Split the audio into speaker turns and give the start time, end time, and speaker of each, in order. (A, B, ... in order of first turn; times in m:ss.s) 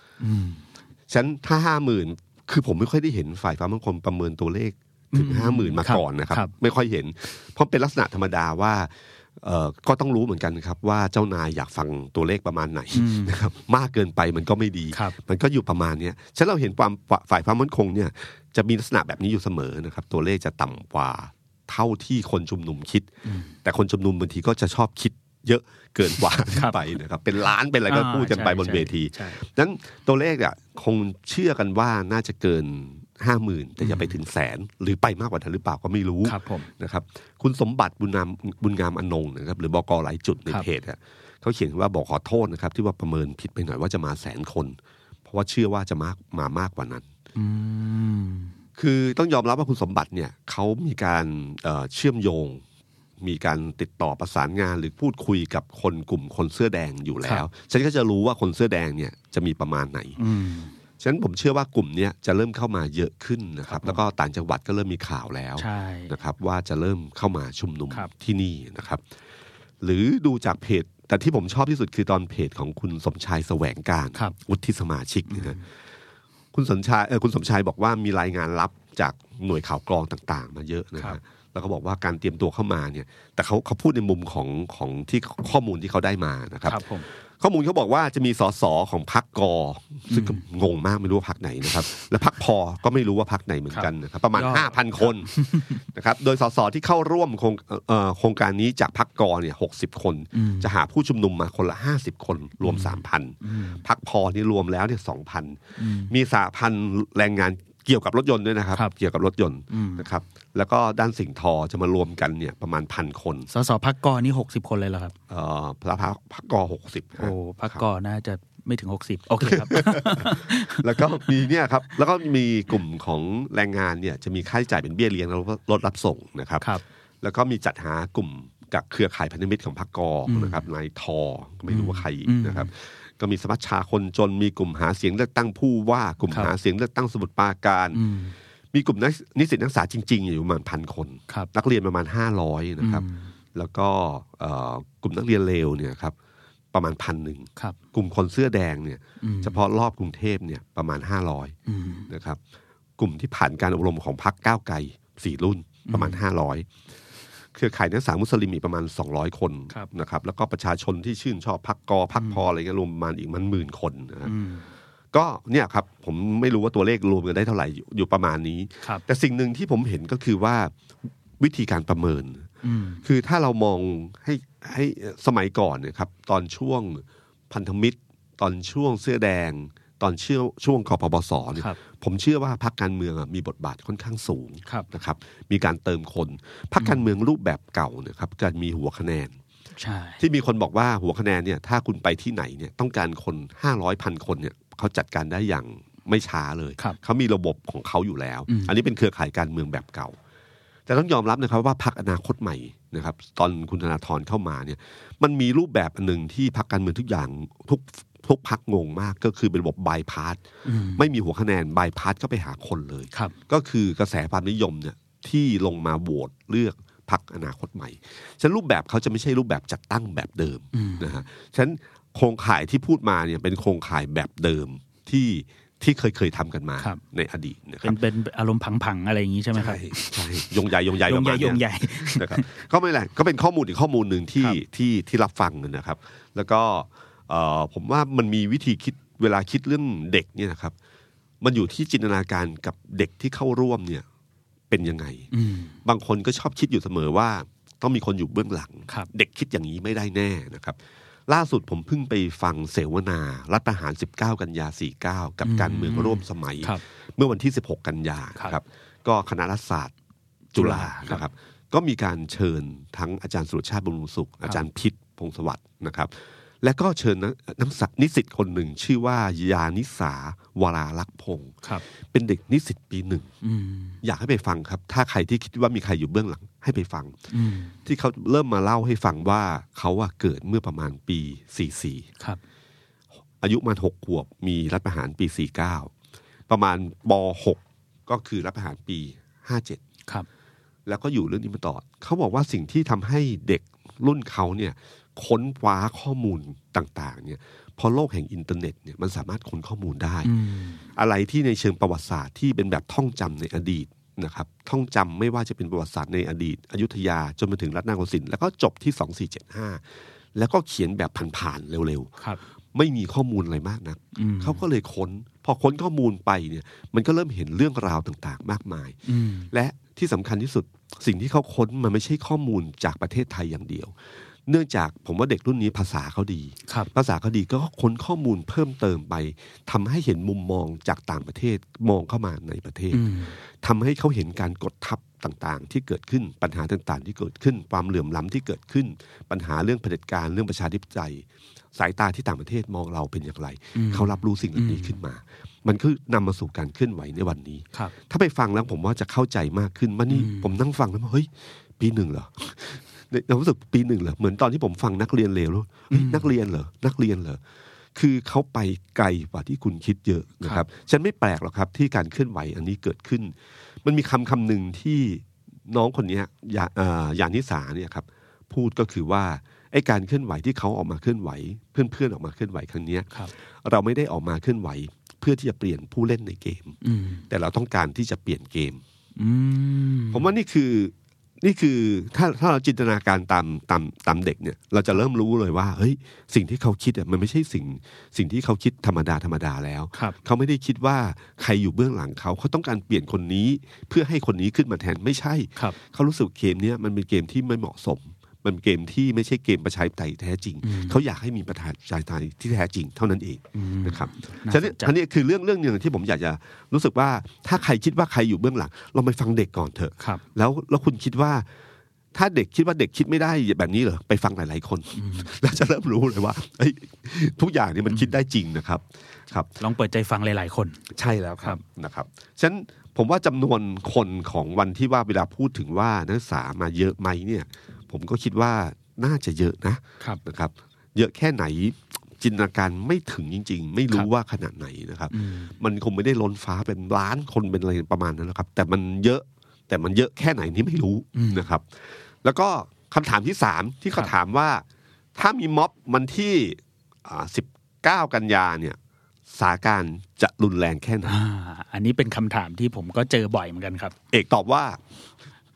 0:00.2-0:00.6 A
0:01.1-0:23.1 B
0:05.1-0:06.5 A
0:12.9-0:13.4 A
0:23.2-0:23.5 A
0:23.6-0:47.1 B
0:26.5-0:26.8 A
0:27.9-0:29.4 A
0:33.8-0:34.2 A
0:36.2-0:36.7 A
0:47.4-0:48.5 A
0:48.8-0:52.6 B
0:53.2-1:00.2 B
1:00.2-1:00.8 A
1:01.0-1:09.0 B
1:03.7-1:04.0 A
1:05.6-1:06.1 A
1:09.8-1:15.6 B
1:15.3-1:15.6 A
1:16.5-1:26.8 B
1:26.6-1:27.1 A
1:27.4-1:35.3 B
1:30.1-1:30.4 A
1:33.7-1:35.8 A
1:35.8-1:53.5 B
1:40.3-1:40.7 A
1:42.6-1:43.8 A
1:45.8-1:46.1 A
1:49.7-1:50.1 A
1:53.5-1:55.2 A
1:55.3-1:57.8 B
1:57.2-2:01.2 A
1:59.4-2:06.7 B
2:07.2-2:18.0 B
2:10.3-2:10.6 A
2:11.7-2:12.7 A
2:17.9-2:18.4 A
2:18.7-2:26.2 B
2:22.8-2:23.3 A
2:26.7-2:31.6 B
2:29.2-2:29.6 A
2:31.7-2:32.1 A
2:32.1-2:32.4 B
2:33.0-2:36.7 B
2:35.9-2:36.2 A
2:37.5-2:44.3 B
2:42.2-2:42.4 A
2:44.2-2:44.7 A
2:45.1-2:50.7 B
2:51.4-2:52.5 B
2:52.6-2:53.0 A
2:53.0-3:09.4 B
3:06.8-3:07.0 A
3:09.8-3:10.2 A
3:10.2-3:20.2 B
3:18.5-3:18.7 A
3:20.9-3:30.4 B
3:30.6-3:31.0 A
3:31.0-3:48.0 B
3:40.7-3:41.1 A
3:47.8-3:50.5 A
3:49.6-4:00.8 B
3:51.0-3:52.6 A
4:01.4-4:04.0 B
4:04.7-4:05.3 B
4:05.3-4:05.8 A
4:05.8-4:19.9 B
4:15.4-4:16.8 A
4:20.5-4:33.3 B
4:20.6-4:21.2 A
4:33.4-4:34.0 A
4:34.0-4:37.2 B
4:37.3-4:37.8 A
4:37.8-4:42.1 B
4:43.4-4:45.9 B
4:46.5-4:49.8 B
4:50.9-5:00.3 B
5:00.2-5:00.8 A
5:01.0-5:09.8 B
5:10.3-5:12.1 B
5:12.7-5:19.0 B
5:14.2-5:14.6 A
5:19.1-5:19.5 A
5:19.5-5:24.0 B
5:24.5-5:57.4 B
5:32.9-5:33.4 A
5:43.8-5:45.0 A
5:50.1-5:50.5 A
5:55.9-5:56.3 A
5:58.0-6:13.1 B
6:13.6-6:16.8 B
6:16.8-6:17.2 A
6:17.3-6:18.8 B
6:19.2-6:20.2 A
6:20.1-6:51.5 B
6:40.6-6:41.0 A
6:43.5-6:44.9 A
6:52.1-6:59.5 B
6:55.0-6:55.3 A
6:59.6-7:00.8 A
7:00.9-7:24.6 B
7:15.1-7:15.5 A
7:21.2-7:21.4 A
7:25.2-7:28.8 B
7:29.3-7:31.2 B
7:31.0-7:34.0 A
7:34.1-7:34.8 B